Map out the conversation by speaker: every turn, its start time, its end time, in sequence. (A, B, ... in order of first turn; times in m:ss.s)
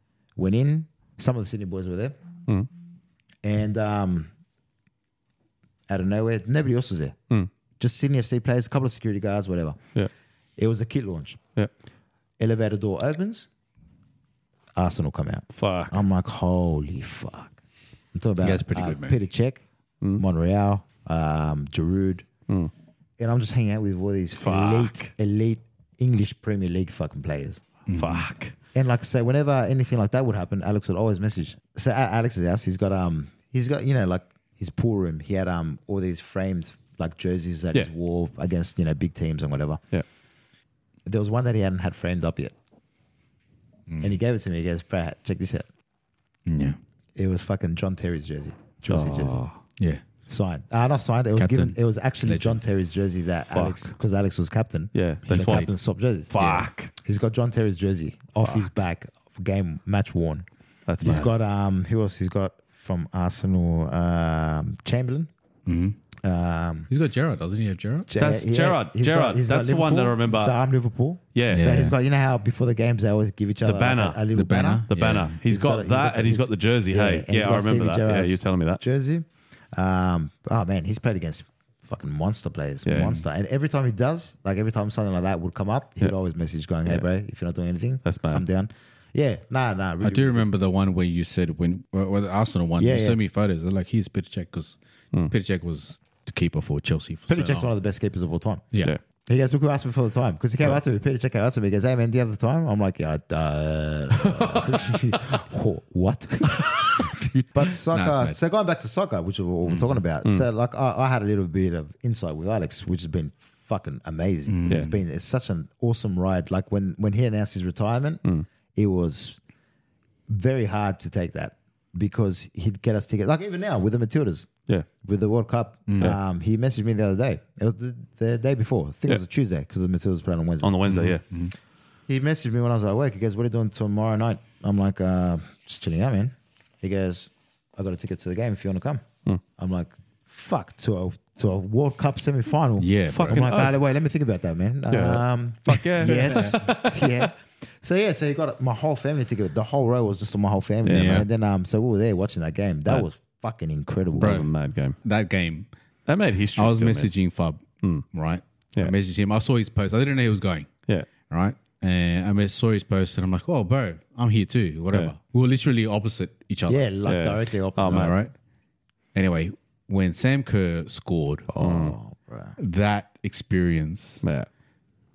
0:00.4-0:02.2 A
0:03.4-0:04.3 A
0:05.9-0:07.2 A
0:07.8-0:09.8 A
0:10.6-0:11.4 A
0:12.4-0:13.5 A
0:14.8-0:17.6 A
0:15.6-0:16.0 B
0:18.1-0:19.6 A
0:18.4-0:19.2 C
0:20.2-0:22.3 A
0:23.2-0:27.6 A
0:24.4-0:25.1 B
0:27.9-0:28.3 C
0:27.9-0:28.5 B
0:28.7-0:39.8 A
0:41.0-0:42.5 A
0:43.9-0:44.2 C
0:44.0-0:45.7 A
0:46.5-0:46.8 C
0:47.2-0:49.4 A
0:48.9-0:49.6 B
0:50.3-1:00.4 A
0:51.4-0:52.6 C
0:53.5-0:53.9 B
0:54.9-0:55.7 B
0:55.3-0:55.7 C
0:56.3-0:56.9 B
0:58.4-0:58.7 B
1:00.9-1:01.3 B
1:01.0-1:05.3 A
1:05.6-1:06.0 C
1:06.2-1:06.9 A
1:06.9-1:08.1 C
1:08.1-1:30.5 A
1:08.2-1:10.6 B
1:11.3-1:11.8 B
1:11.5-1:11.9 C
1:13.6-1:14.2 B
1:14.3-1:15.4 C
1:14.9-1:18.8 B
1:22.8-1:23.1 B
1:23.0-1:23.2 C
1:28.0-1:28.4 B
1:30.0-1:34.8 C
1:32.8-1:33.2 A
1:35.3-1:37.7 C
1:37.3-1:38.6 A
1:39.2-1:58.2 A
1:44.3-1:44.6 B
1:47.3-1:48.4 C
1:49.7-1:50.0 C
1:54.5-1:55.0 C
1:58.7-1:59.4 A
2:00.3-2:10.8 A
2:05.9-2:06.1 C
2:10.6-2:11.2 B
2:10.9-2:11.5 C
2:12.1-2:19.0 A
2:19.6-2:34.4 A
2:22.8-2:23.5 C
2:23.3-2:23.8 B
2:24.9-2:27.3 B
2:26.1-2:26.6 C
2:30.8-2:31.2 B
2:30.8-2:31.2 C
2:34.2-2:34.5 C
2:34.2-2:35.0 B
2:35.0-2:35.7 C
2:36.1-2:37.1 B
2:36.6-2:40.7 C
2:41.3-2:46.9 C
2:46.7-2:48.2 A
2:47.0-2:48.1 B
2:47.9-2:48.3 C
2:49.1-2:51.5 C
2:51.5-2:52.0 B
2:51.6-2:52.5 A
2:52.6-2:54.2 C